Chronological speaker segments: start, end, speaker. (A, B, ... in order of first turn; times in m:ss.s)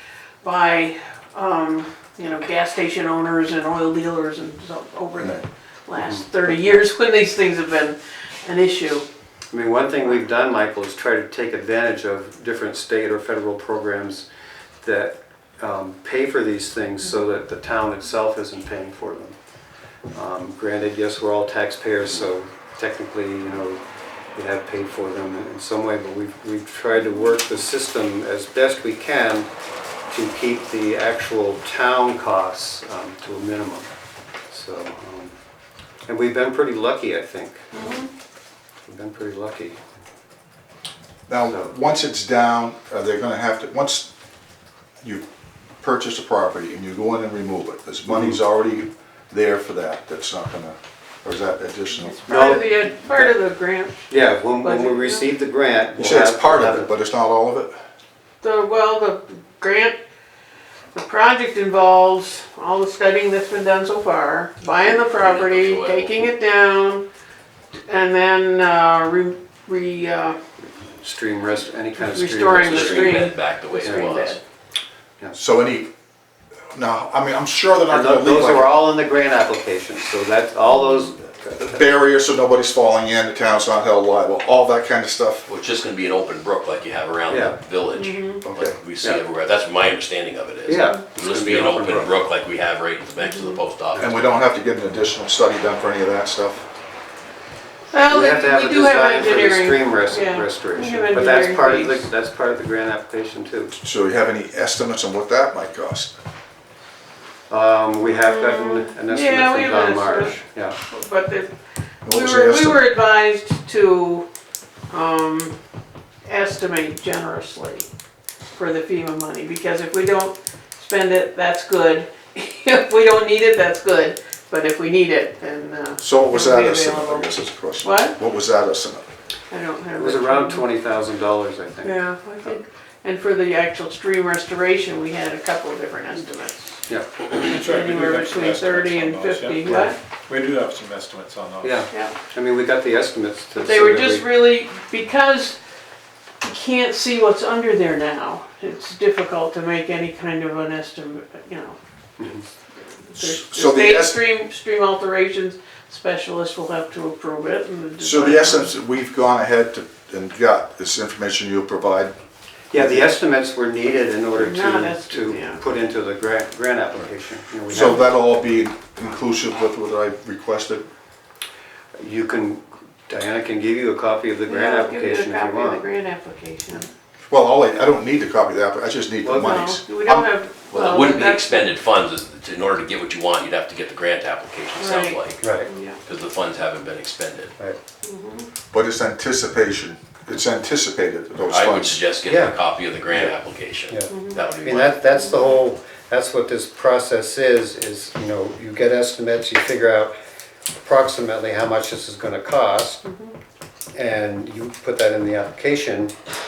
0:00.4-0:09.0 A
0:05.2-0:05.4 B
0:06.0-0:06.8 C
0:09.5-0:14.2 C
0:14.8-0:19.4 C
0:20.1-0:23.8 C
0:24.4-0:29.5 C
0:30.1-0:33.9 C
0:34.5-0:35.3 C
0:36.1-0:38.0 C
0:37.7-0:38.1 A
0:38.8-0:39.8 C
0:41.3-0:44.1 B
0:45.8-0:52.2 B
0:48.1-0:48.4 C
0:52.0-0:55.3 A
0:52.3-0:53.3 C
0:54.1-0:56.9 C
0:56.0-0:57.8 B
0:58.4-1:00.0 A
1:00.9-1:07.0 A
1:04.8-1:06.2 D
1:07.8-1:10.4 A
1:11.0-1:13.2 C
1:12.0-1:14.4 A
1:12.6-1:14.4 D
1:13.8-1:14.1 C
1:15.4-1:15.9 B
1:16.7-1:18.7 B
1:17.9-1:21.8 C
1:20.7-1:21.0 A
1:21.6-1:25.4 B
1:25.4-1:34.1 D
1:27.3-1:27.6 C
1:28.0-1:28.4 A
1:28.4-1:28.8 B
1:30.7-1:32.1 C
1:30.7-1:31.0 A
1:33.2-1:33.6 A
1:33.9-1:34.2 C
1:34.0-1:36.6 B
1:37.9-1:42.1 A
1:38.1-1:43.7 C
1:43.7-1:46.1 B
1:47.5-1:50.8 C
1:48.1-1:51.5 A
1:52.0-1:52.8 B
1:52.0-1:54.3 A
1:54.9-1:55.6 A
1:56.2-1:57.9 A
1:58.5-2:08.2 A
2:06.0-2:09.0 B
2:09.5-2:10.7 A
2:10.0-2:12.0 C
2:11.8-2:20.0 A
2:17.4-2:21.9 E
2:21.6-2:24.2 C
2:21.9-2:22.2 A
2:23.6-2:25.6 A
2:26.4-2:31.8 A
2:33.1-2:38.7 A
2:33.1-2:34.2 B
2:38.0-2:42.1 B
2:42.7-2:48.1 C
2:42.7-2:43.1 B
2:44.3-2:45.6 A
2:47.7-2:50.8 B
2:52.0-2:55.8 C
2:54.4-2:56.9 A
2:57.3-3:00.3 B
2:59.2-2:59.7 C
2:59.4-3:01.7 A
3:00.7-3:05.5 D
3:04.8-3:06.0 A
3:05.4-3:05.7 C
3:06.0-3:07.5 D
3:08.0-3:08.5 A
3:08.7-3:12.0 B
3:11.5-3:15.0 D
3:12.2-3:12.6 C
3:13.9-3:20.1 C
3:14.1-3:14.4 A
3:15.1-3:15.6 A
3:20.8-3:23.0 C
3:23.0-3:23.3 A
3:23.9-3:26.1 C